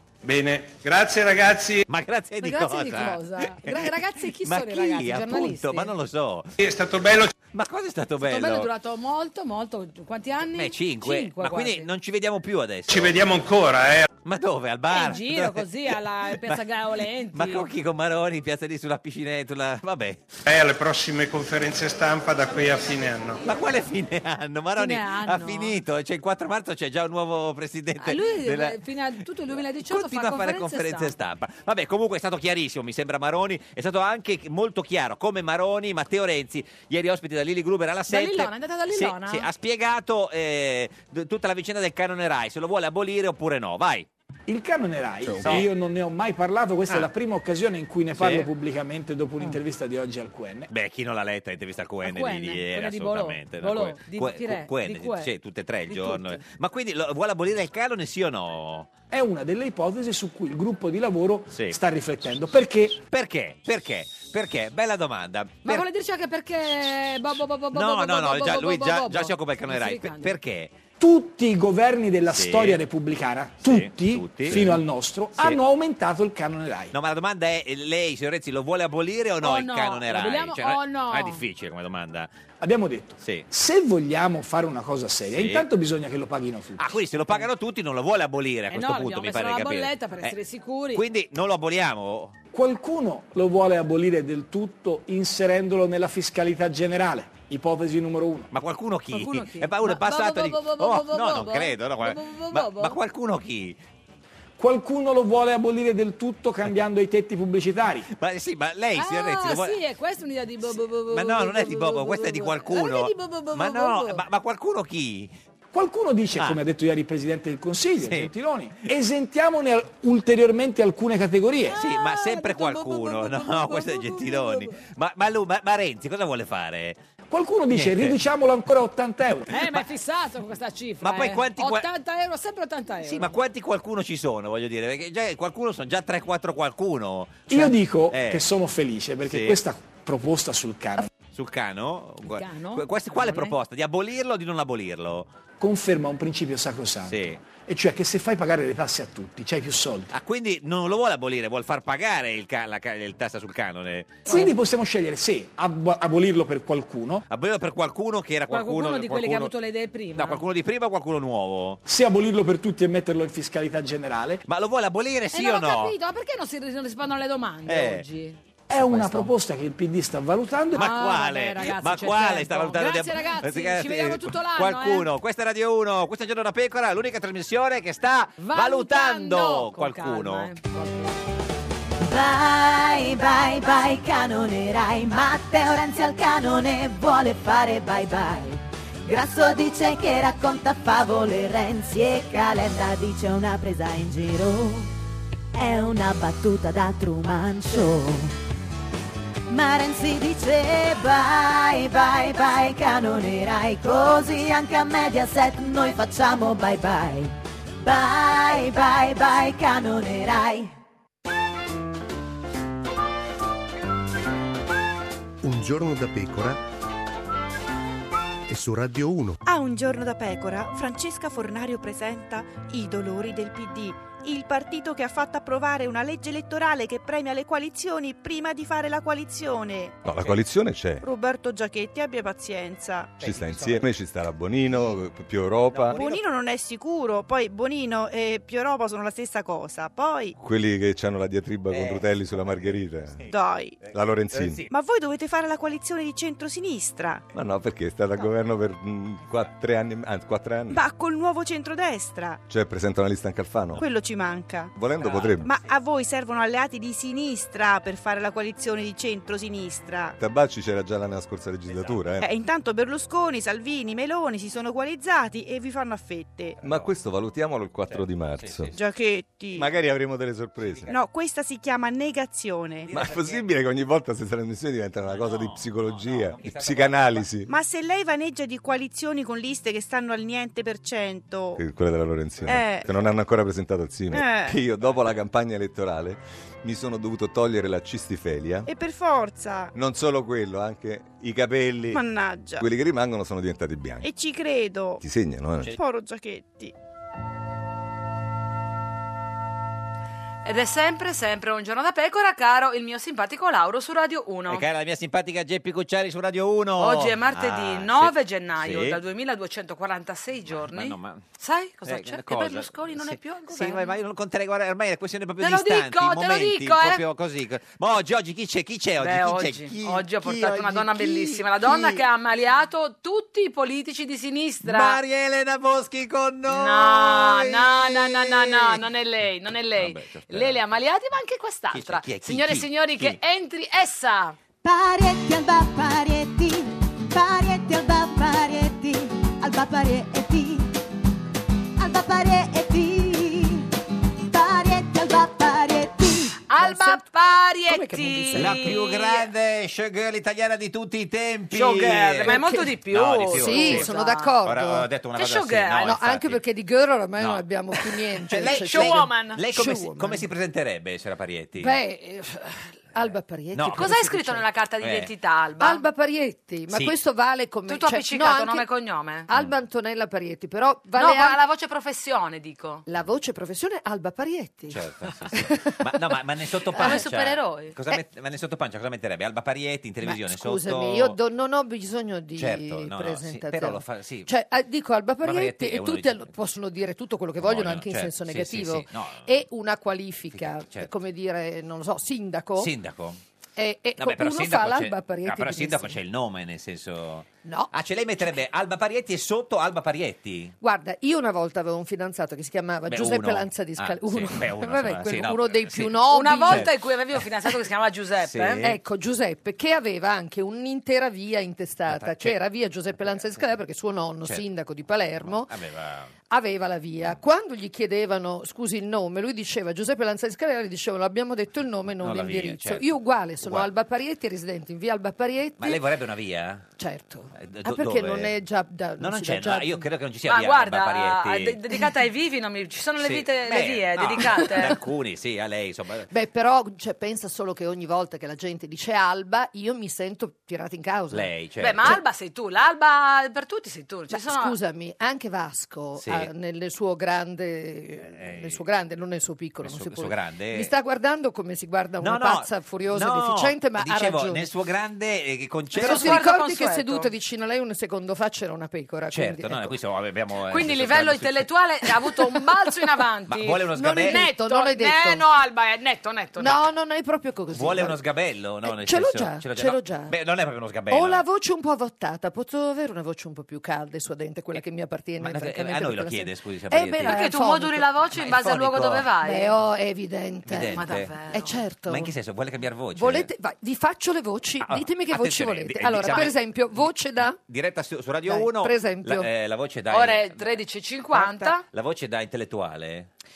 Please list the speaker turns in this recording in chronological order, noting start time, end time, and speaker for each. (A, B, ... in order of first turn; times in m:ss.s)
0:00.2-0:01.8 A
0:01.9-0:06.5 B
0:02.4-0:05.9 C
0:06.6-0:07.3 A
0:07.5-0:08.7 B
0:08.2-0:11.9 C
0:10.5-0:13.2 B
0:12.9-0:14.1 A
0:14.2-0:20.2 B
0:14.9-0:17.7 C
0:20.4-0:23.4 A
0:23.4-0:28.8 B
0:24.8-0:25.8 C
0:28.0-0:31.1 C
0:29.8-0:44.1 B
0:38.1-0:39.5 C
0:44.5-0:50.7 D
0:45.4-0:45.7 B
0:48.1-0:48.5 B
0:50.7-0:58.9 B
0:52.0-0:55.3 C
0:55.9-0:56.4 C
0:59.1-1:03.0 D
1:01.5-1:01.8 B
1:03.1-1:05.9 B
1:05.6-1:10.4 C
1:07.7-1:10.7 B
1:11.0-1:16.9 D
1:12.3-1:12.8 B
1:13.6-1:14.8 B
1:16.9-1:22.3 B
1:19.4-1:21.4 C
1:22.6-1:27.4 D
1:23.2-1:23.5 B
1:25.3-1:25.6 B
1:26.8-1:30.4 B
1:28.7-1:31.0 C
1:30.9-1:32.4 B
1:32.5-1:38.5 D
1:38.5-1:43.8 B
1:39.1-1:43.0 C
1:44.6-1:48.1 D
1:48.1-1:49.8 B
1:49.0-1:54.2 C
1:51.1-1:55.3 B
1:55.7-2:01.8 D
1:58.0-1:58.3 B
2:01.7-2:04.8 C
2:01.7-2:07.0 B
2:07.3-2:09.6 D
2:07.7-2:08.2 B
2:09.5-2:13.3 C
2:11.0-2:11.9 B
2:13.0-2:18.4 B
2:17.5-2:21.1 D
2:19.2-2:19.6 B
2:21.3-2:25.3 B
2:22.2-2:23.5 C
2:25.6-2:30.1 D
2:27.0-2:27.4 B
2:30.1-2:34.4 B
2:34.3-2:37.2 D
2:37.3-2:39.5 B
2:38.5-2:40.4 C
2:40.2-2:41.8 B
2:41.8-2:44.4 D
2:44.4-2:46.0 B
2:45.3-2:48.4 C
2:47.7-2:48.0 B
2:48.7-2:50.8 D
2:48.7-2:49.3 B
2:50.7-2:55.1 C
2:50.7-3:00.5 B
2:58.4-3:01.1 C
3:02.0-3:14.9 E
3:15.5-3:18.3 E
3:19.5-3:30.7 E
3:35.4-3:36.6 F
3:38.5-3:39.4 F
3:39.4-3:50.0 G
3:50.0-3:51.0 H
3:51.0-3:53.1 G
3:53.2-3:53.9 B
3:53.2-3:56.0 H
3:55.7-3:56.2 B
3:55.9-4:00.3 G
4:00.4-4:03.2 H
4:01.7-4:04.7 B
4:03.3-4:03.8 G
4:03.9-4:04.6 H
4:04.7-4:07.2 G
4:07.3-4:10.8 H
4:10.7-4:12.4 G
4:12.5-4:13.8 H
4:13.8-4:14.7 G
4:14.7-4:15.5 H
4:15.0-4:15.6 B
4:15.4-4:20.2 G
4:20.2-4:22.3 H
4:21.7-4:22.0 B
4:22.2-4:26.6 G
4:26.6-4:26.9 B
4:26.6-4:28.7 H
4:27.8-4:28.8 B
4:28.7-4:29.7 G
4:29.5-4:30.9 H
4:30.6-4:31.0 B
4:30.9-4:32.9 G
4:32.8-4:33.4 B
4:32.9-4:37.5 H
4:35.0-4:37.3 B
4:37.5-4:41.6 G
4:41.6-4:48.7 H
4:42.4-4:42.9 G
4:44.1-4:44.6 G
4:48.6-4:49.7 G
4:49.7-4:52.0 H
4:51.9-4:52.6 G
4:52.6-4:54.1 H
4:54.0-4:55.0 G
4:55.0-4:55.8 H
4:55.6-4:56.7 G
5:00.4-5:04.6 C
5:04.5-5:09.0 B
5:06.8-5:14.0 C
5:10.5-5:11.2 B
5:11.8-5:22.0 B
5:15.4-5:17.0 C
5:19.0-5:25.0 C
5:24.6-5:28.8 B
5:26.5-5:34.4 C
5:29.8-5:30.6 B
5:31.7-5:33.2 B
5:34.6-5:40.8 E
5:41.8-5:43.7 E
5:44.3-5:46.4 E
5:46.5-5:49.3 C
5:46.5-5:47.0 I
5:47.7-5:48.8 I
5:48.3-5:53.9 B
5:51.5-5:54.3 C
5:52.2-5:52.8 I
5:53.3-5:54.9 I
5:54.4-5:56.4 B
5:55.2-5:55.9 C
5:55.8-6:00.3 I
5:57.2-5:57.4 B
5:58.2-6:01.8 B
5:58.3-5:59.4 C
6:01.6-6:04.4 I
6:03.5-6:03.9 B
6:03.7-6:05.8 C
6:04.8-6:05.1 B
6:05.6-6:08.7 I
6:06.7-6:06.9 B
6:07.7-6:09.3 C
6:09.3-6:11.4 I
6:11.0-6:12.8 C
6:12.9-6:15.9 I
6:14.7-6:21.2 B
6:16.7-6:17.0 I
6:16.8-6:17.8 C
6:20.0-6:32.7 I
6:22.4-6:24.3 B
6:25.2-6:26.3 B
6:27.4-6:29.3 B
6:30.3-6:30.9 B
6:32.6-6:33.2 B
6:33.6-6:36.0 I
6:34.0-6:40.5 B
6:37.4-6:37.7 I
6:40.6-6:46.7 I
6:42.9-6:46.7 B
6:46.1-6:48.6 C
6:48.2-6:48.8 B
6:48.6-6:55.5 I
6:51.9-6:52.4 B
6:55.2-6:56.1 B
6:56.3-7:05.8 I
7:02.0-7:02.9 B
7:03.4-7:03.7 B
7:05.6-7:06.6 B
7:06.8-7:09.8 I
7:07.4-7:08.3 B
7:09.0-7:11.6 B
7:10.3-7:14.8 C
7:13.0-7:16.1 B
7:16.1-7:21.3 I
7:21.1-7:22.0 B
7:21.6-7:24.6 C
7:24.1-7:34.4 I
7:26.0-7:26.3 B
7:28.1-7:28.6 B
7:29.6-7:30.7 B
7:32.0-7:36.2 B
7:35.7-7:37.1 C
7:35.7-7:39.8 I
7:39.1-7:41.5 B
7:40.5-7:46.6 C
7:43.3-7:44.2 B
7:43.7-7:45.2 I
7:46.4-7:48.0 I
7:47.5-7:51.2 B
7:48.6-7:50.1 I
7:50.9-7:57.9 I
7:55.2-7:57.2 B
7:57.0-7:59.5 C
7:58.1-7:59.1 B
7:59.2-8:02.1 I
8:00.4-8:01.1 B
8:00.6-8:01.6 C
8:01.9-8:03.3 B
8:03.0-8:07.4 I
8:04.6-8:10.6 B
8:08.2-8:09.3 I
8:09.9-8:11.6 C
8:11.2-8:11.5 I
8:11.7-8:13.1 B